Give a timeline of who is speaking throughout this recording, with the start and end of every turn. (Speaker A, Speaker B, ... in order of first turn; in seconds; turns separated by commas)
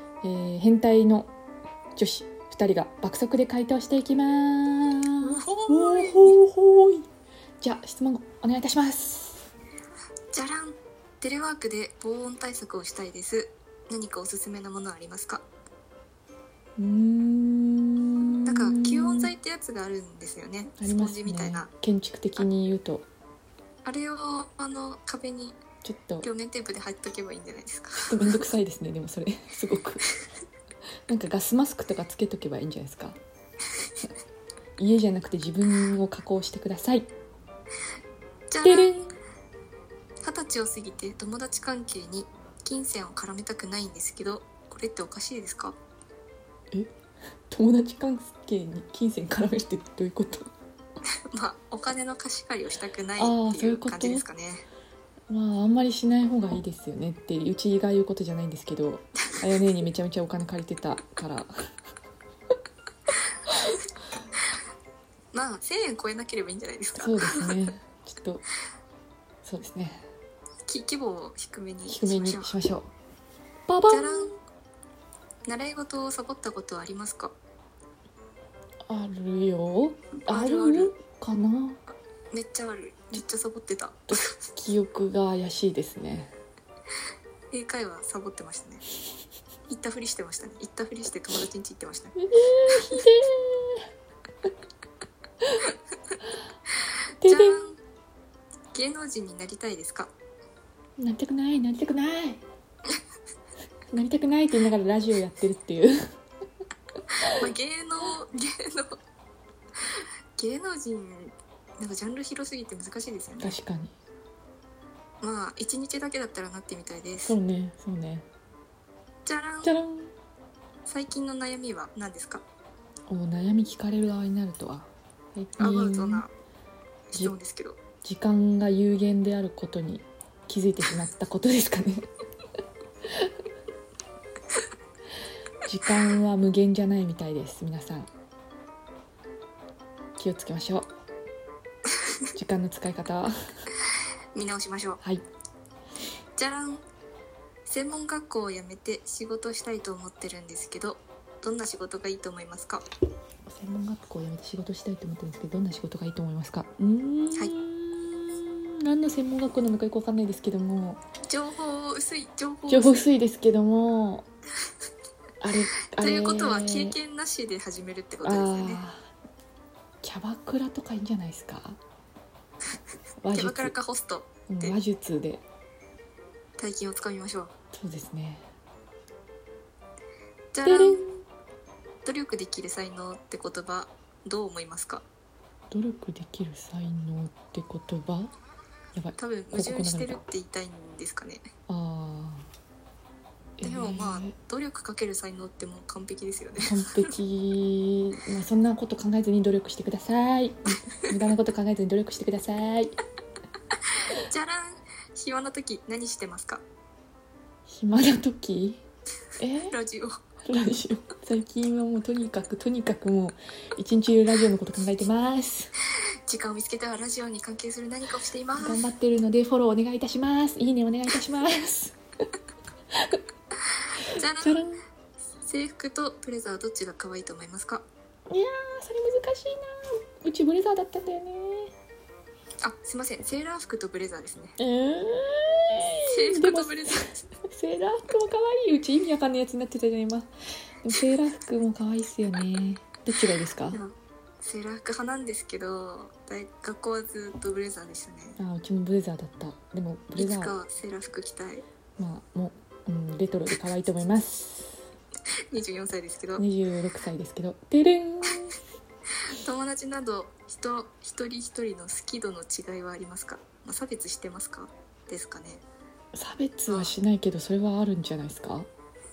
Speaker A: 0.2-1.3, Speaker A: 1.9-7.1, Speaker B: 5.2-6.4, Speaker A: 7.6-9.5, Speaker B: 10.3-15.4, Speaker A: 16.8-19.3, Speaker B: 18.4-21.7, Speaker A: 20.8-23.1, Speaker B: 23.8-25.6, Speaker A: 25.8-26.3, Speaker B: 26.2-28.4, Speaker A: 28.0-30.1, Speaker A: 31.1-33.2, Speaker A: 34.8-37.1, Speaker B: 38.5-39.0, Speaker A: 38.6-39.1, Speaker B: 40.2-45.8, Speaker A: 47.5-50.5, Speaker B: 51.3-54.7, Speaker A: 53.2-54.2, Speaker A: 55.3-61.5, Speaker B: 65.3-67.6, Speaker A: 66.9-68.4, Speaker A: 69.4-70.1, Speaker B: 70.7-72.5, Speaker A: 71.9-72.9, Speaker A: 73.7-74.3, Speaker B: 73.9-74.3, Speaker B: 75.5-77.3, Speaker A: 78.9-81.8, Speaker B: 80.2-80.9, Speaker B: 82.3-84.3, Speaker A: 84.1-86.3, Speaker B: 87.5-88.8, Speaker B: 89.7-92.2, Speaker A: 92.2-93.8, Speaker B: 92.7-93.0, Speaker A: 97.2-97.6, Speaker B: 97.2-97.8, Speaker B: 98.7-100.1, Speaker A: 101.0-102.4, Speaker A: 103.9-106.0, Speaker B: 107.3-109.0, Speaker B: 109.8-113.5, Speaker A: 113.4-113.9, Speaker B: 115.2-117.3, Speaker A: 117.2-118.2, Speaker B: 119.2-119.7, Speaker A: 119.6-120.1, Speaker B: 120.8-122.4, Speaker A: 123.1-126.2, Speaker B: 125.6-126.3, Speaker B: 127.1-127.8, Speaker A: 128.0-132.1, Speaker A: 135.7-138.1, Speaker A: 140.2-140.9, Speaker A: 142.3-143.3, Speaker B: 144.3-145.0, Speaker B: 146.4-146.8, Speaker B: 147.7-152.8, Speaker A: 153.5-161.0, Speaker B: 161.2-163.1, Speaker A: 162.7-164.2, Speaker A: 165.4-167.0, Speaker B: 165.9-168.8, Speaker A: 168.2-169.1, Speaker A: 170.0-171.8, Speaker A: 173.2-173.7, Speaker B: 173.3-174.8, Speaker A: 174.5-175.4, Speaker B: 176.6-177.5, Speaker A: 177.7-178.5, Speaker B: 180.5-181.0, Speaker A: 180.6-181.2, Speaker B: 182.1-185.1, Speaker A: 185.7-188.3, Speaker A: 188.9-190.2, Speaker B: 189.2-191.5, Speaker A: 191.7-192.5, Speaker A: 193.6-194.3, Speaker B: 193.6-197.1, Speaker A: 196.6-202.9, Speaker B: 204.2-206.6, Speaker A: 207.7-208.8, Speaker A: 209.4-209.8, Speaker B: 209.7-210.2, Speaker A: 210.5-215.7, Speaker B: 216.3-218.8, Speaker A: 218.6-222.0, Speaker B: 224.0-224.6, Speaker A: 224.0-224.8, Speaker B: 225.4-227.8, Speaker A: 228.3-231.7, Speaker B: 232.6-234.6, Speaker A: 234.6-240.3, Speaker B: 236.1-237.1, Speaker A: 240.8-243.8, Speaker B: 243.7-248.4, Speaker A: 248.4-250.6, Speaker B: 250.2-251.7, Speaker A: 252.0-254.8, Speaker B: 255.5-256.4, Speaker A: 256.4-258.6, Speaker B: 259.3-265.6, Speaker A: 266.1-268.7, Speaker B: 266.7-266.9